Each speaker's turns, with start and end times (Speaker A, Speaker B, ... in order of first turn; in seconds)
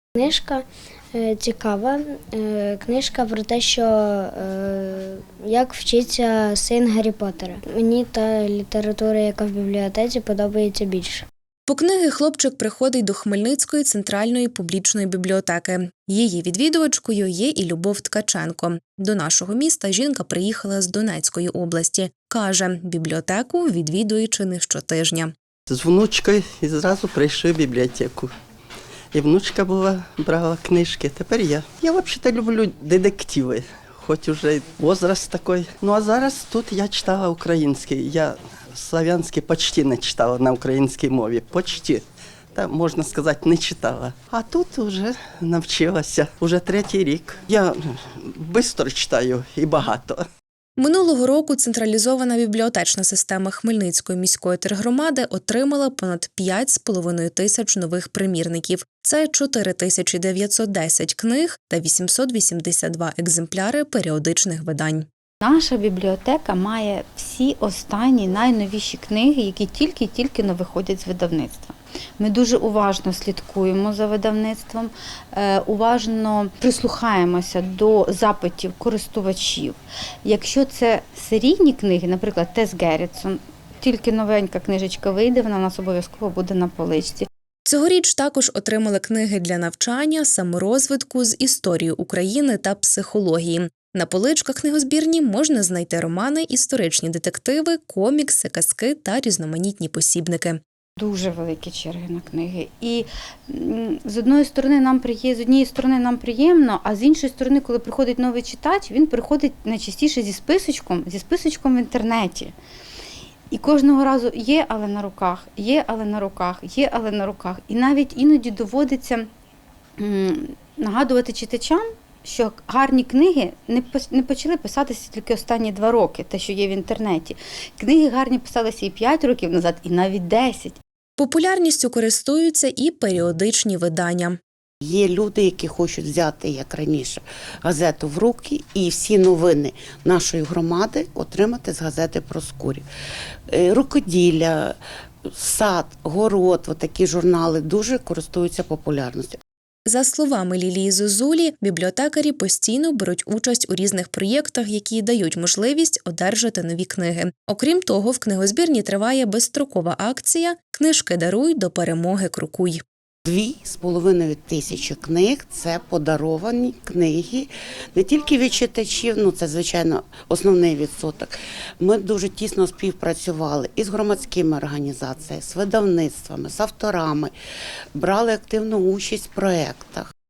Speaker A: 0.2-11.2
Speaker B: 11.7-25.3, 50.8-65.0, 87.7-100.6, 131.2-134.4, 149.9-162.8
Speaker C: 25.7-28.3, 29.1-42.0, 42.5-50.2
Speaker D: 65.4-87.3, 101.0-112.5, 113.5-119.3, 120.0-130.8
Speaker E: 134.8-142.8, 143.5-144.8, 145.3-149.4, 163.2-177.3, 178.0-180.1